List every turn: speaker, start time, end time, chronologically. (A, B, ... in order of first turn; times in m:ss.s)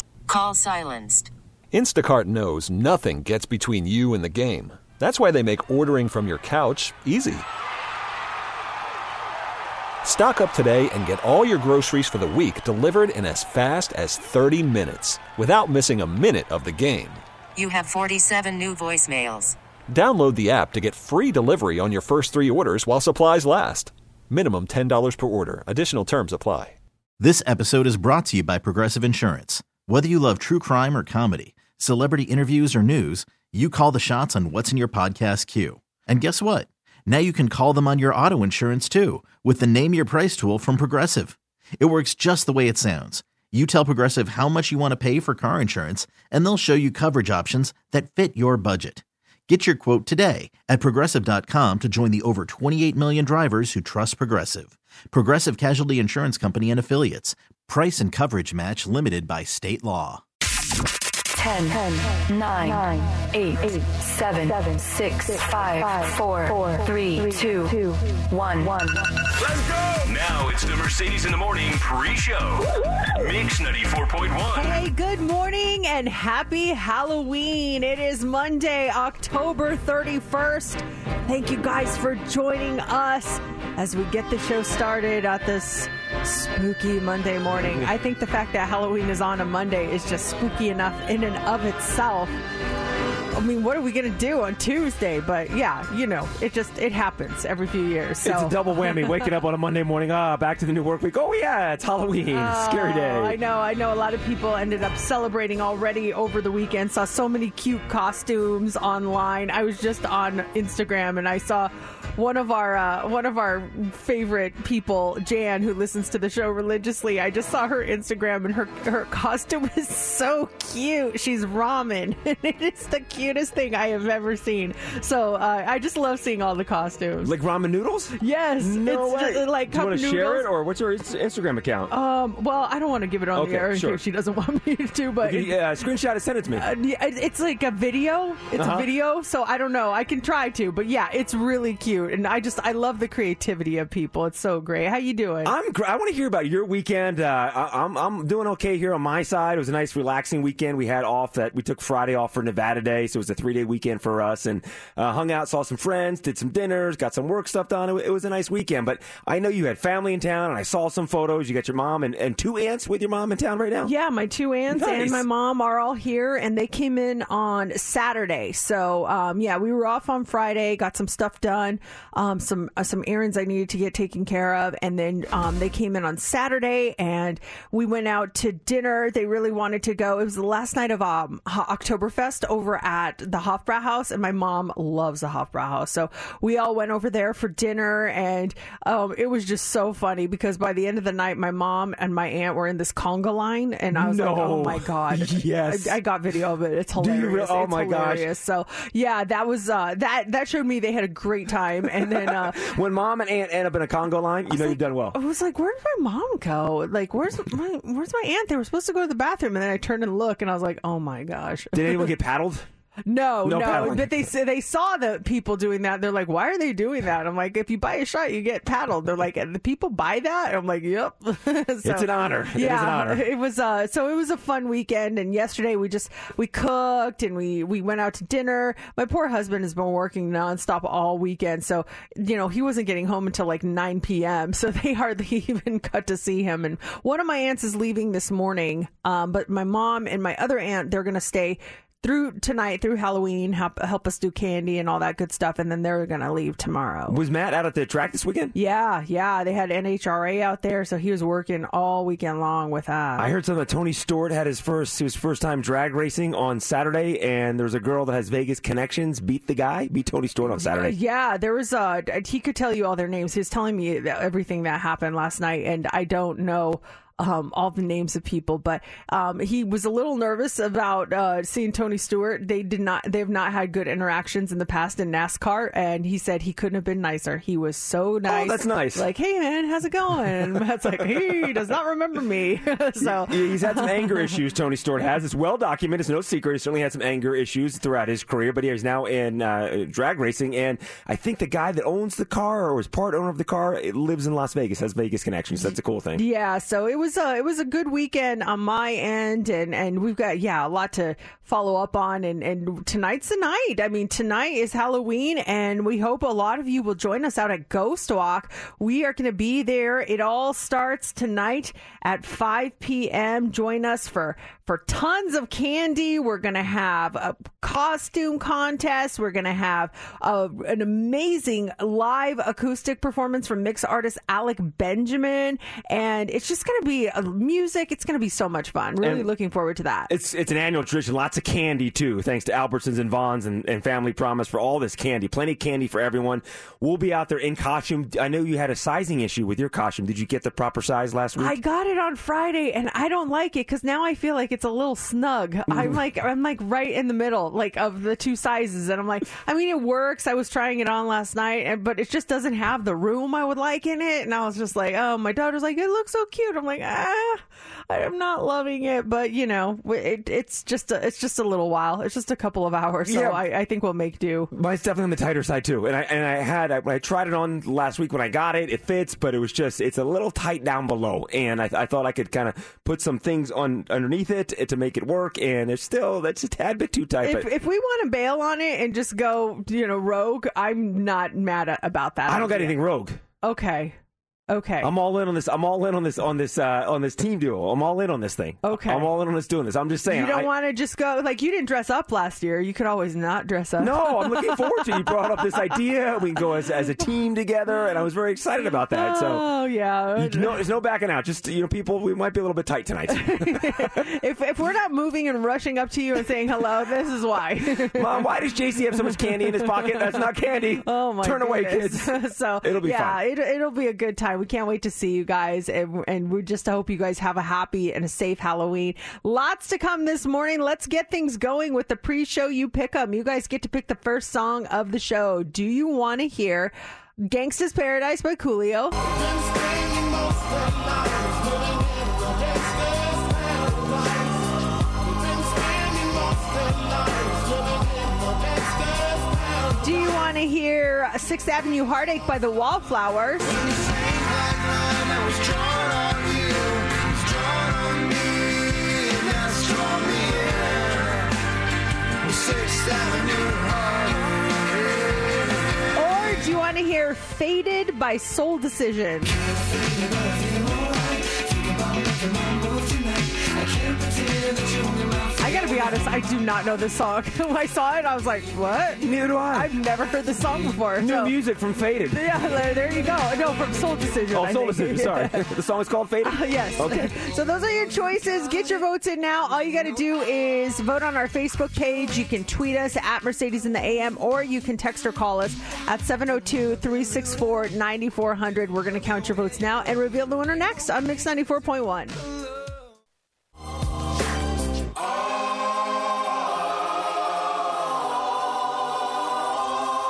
0:00.3-0:01.3 A
0:01.7-0:07.4 B
0:10.0-0:17.2 B
0:17.6-0:19.6 A
0:19.9-0:26.8 B
0:27.2-1:00.2 C
1:01.4-1:09.0 D
1:09.4-1:14.7 E
1:14.5-1:32.3 F
1:33.3-1:39.3 F
1:38.2-1:43.4 G
1:42.3-2:07.3 F
2:07.2-2:11.9 G
2:08.2-2:10.5 F
2:11.9-2:15.5 F
2:13.4-2:14.0 G
2:15.2-2:16.6 G
2:16.6-2:25.5 F
2:18.6-2:18.9 G
2:25.4-2:43.9 G
2:43.8-3:22.7 F
2:44.7-2:45.2 G
3:13.9-3:16.0 G
3:17.0-3:18.3 G
3:22.2-3:25.2 G
3:24.5-3:32.1 F
3:31.7-3:32.7 G
3:33.1-4:07.2 F
3:33.4-3:34.1 G
3:41.8-3:43.2 G
4:07.1-4:08.6 G
4:08.5-4:13.3 F
4:13.2-4:21.0 G
4:20.5-4:44.2 F
4:38.3-4:39.0 G
4:41.1-4:41.7 G
4:43.3-4:56.2 G
4:56.2-5:30.1 F
5:29.0-5:29.3 G
5:30.1-5:41.6 G
5:41.4-6:04.5 F
5:45.7-5:46.0 G
6:03.1-6:03.4 G
6:04.5-6:17.5 G
6:17.2-6:22.8 F
6:22.3-6:23.2 G
6:23.4-6:24.0 F
6:24.5-6:24.9 F
6:24.8-6:30.5 G
6:28.6-6:29.1 F
6:30.1-6:35.8 F
6:33.8-6:39.5 G
6:38.9-6:40.6 F
6:40.2-6:44.0 G
6:43.1-6:48.1 F
6:48.0-6:53.2 G
6:49.1-6:50.2 F
6:50.8-7:09.0 F
7:19.8-7:23.5 F
7:35.9-7:39.4 F
7:45.4-7:51.3 F
7:49.0-7:49.7 G
7:51.0-7:52.4 G
7:52.1-7:55.4 F
7:54.3-7:57.1 G
7:56.2-8:12.2 F